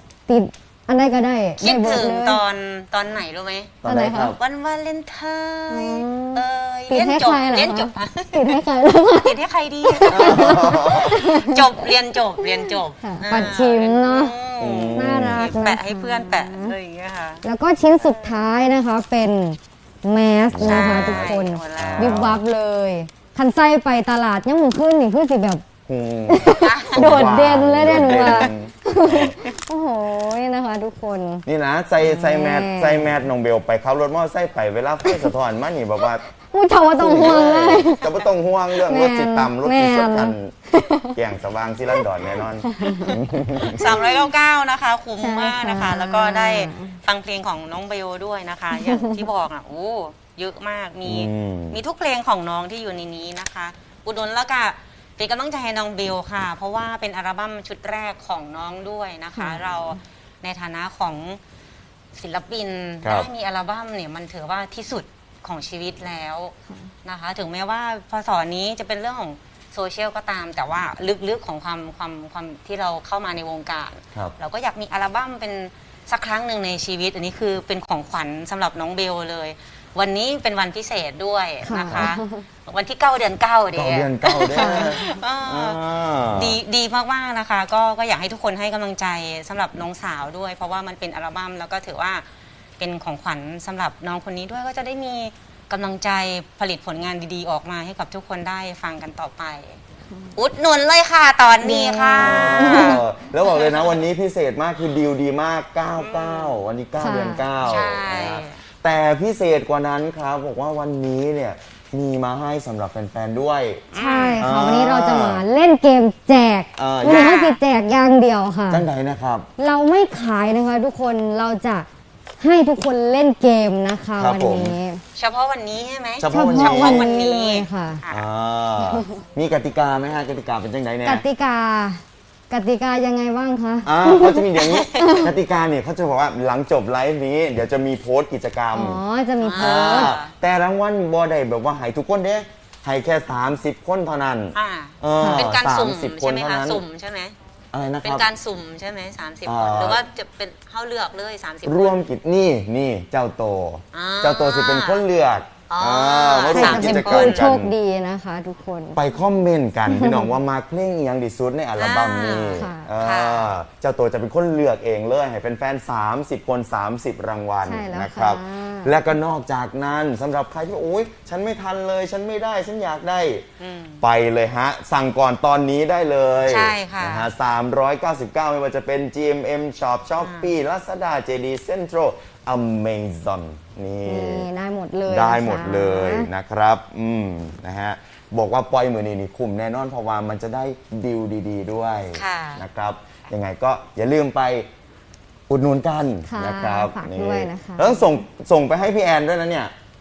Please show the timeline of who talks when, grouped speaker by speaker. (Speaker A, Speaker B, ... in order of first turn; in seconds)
Speaker A: 0.3-2.4, 3.8-4.3, 5.7-9.3, 9.9-11.8, 12.4-14.3, 14.9-16.7, 17.4-25.6, 26.3-31.4, 32.0-33.0, 36.5-38.1, 38.8-41.1, 42.6-43.1, 45.2-47.0, 48.8-49.1, 59.3-60.0, 81.6-82.4, 84.5-85.1, 101.6-103.0, 107.0-107.4, 113.9-118.8, 119.6-121.9, 122.4-125.0, 126.3-128.0, 131.0-135.3, 138.7-140.1, 145.2-145.5, 156.5-159.0, 159.9-160.2, 162.5-162.9, 167.6-168.9, 184.1-186.3, 196.2-198.0
Speaker B: 1.6-8.6, 9.1-17.4, 18.0-18.3, 20.6-22.3, 26.6-27.0, 28.1-28.5, 43.6-61.4, 62.1-92.2, 92.8-99.8, 100.3-103.0, 103.5-103.8, 106.0-106.6, 107.6-108.6, 113.9-114.4, 117.0-117.6, 125.2-128.2, 134.6-135.2, 139.4-140.3, 144.5-147.3, 148.0-152.0, 153.9-155.0, 155.7-157.5, 161.8-163.5, 173.6-174.0, 176.5-177.3, 180.2-180.5, 192.1-192.6
Speaker C: 3.8-4.4, 10.1-11.2, 14.6-15.5, 20.5-22.4, 25.9-29.3, 31.4-36.2, 37.0-40.5, 41.1-44.0, 51.0-51.8, 63.0-63.3, 81.8-82.1, 83.7-86.6, 102.2-115.4, 116.8-117.4, 118.7-119.5, 124.2-124.7, 126.2-127.0, 128.1-131.2, 133.8-139.0, 139.6-146.8, 147.7-148.2, 149.4-150.0, 151.6-157.7, 158.9-173.4, 174.0-184.4, 185.1-194.7, 195.5-199.7